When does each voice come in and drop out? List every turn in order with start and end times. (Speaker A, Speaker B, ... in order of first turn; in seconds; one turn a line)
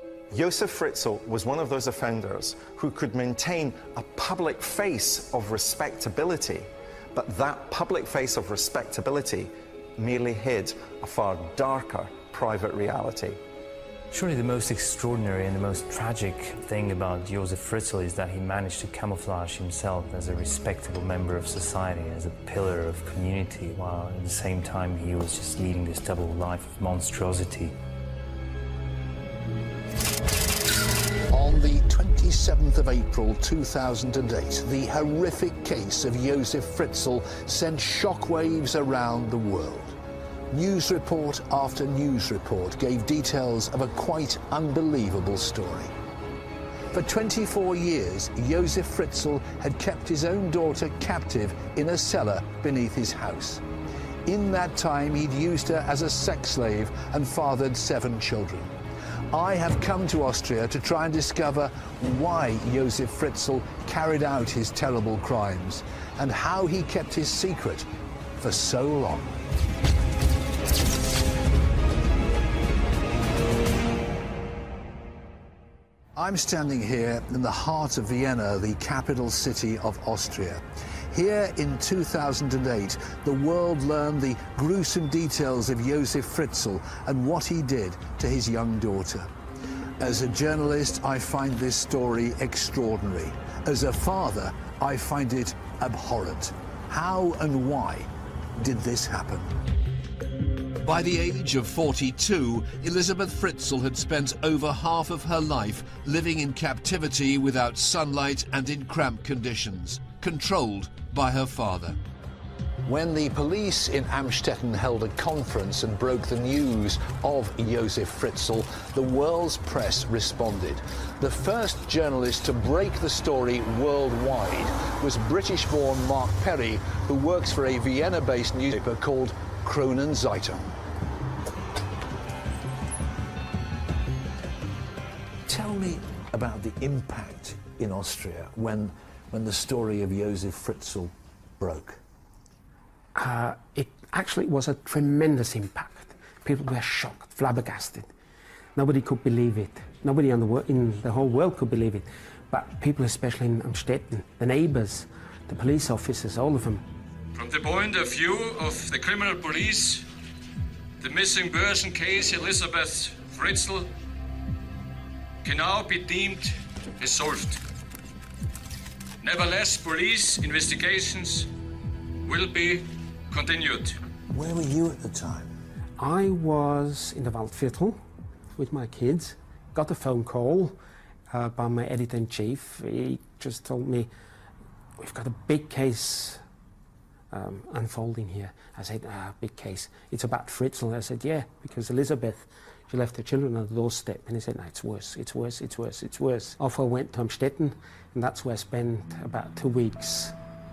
Speaker A: 0.3-13.4
Speaker B: 14.1-27.8
Speaker C: 31.3-40.0
Speaker C: 40.5-45.9
Speaker C: 46.9-53.6
Speaker C: 54.3-58.7
Speaker C: 59.3-67.9
Speaker C: 68.4-69.3
Speaker C: 76.2-89.3
Speaker C: 90.0-99.6
Speaker D: 100.8-112.0
Speaker C: 112.8-130.7
Speaker C: 135.5-142.0
Speaker E: 143.2-148.1
Speaker E: 148.8-156.8
Speaker F: 157.3-160.1
Speaker F: 161.0-163.9
Speaker F: 165.4-167.6
Speaker F: 169.2-171.5
Speaker F: 172.2-174.0
Speaker C: 174.3-175.6
Speaker E: 176.0-178.0
Speaker E: 178.6-180.8
Speaker E: 181.3-184.1
Speaker E: 185.0-186.4
Speaker E: 187.3-200.3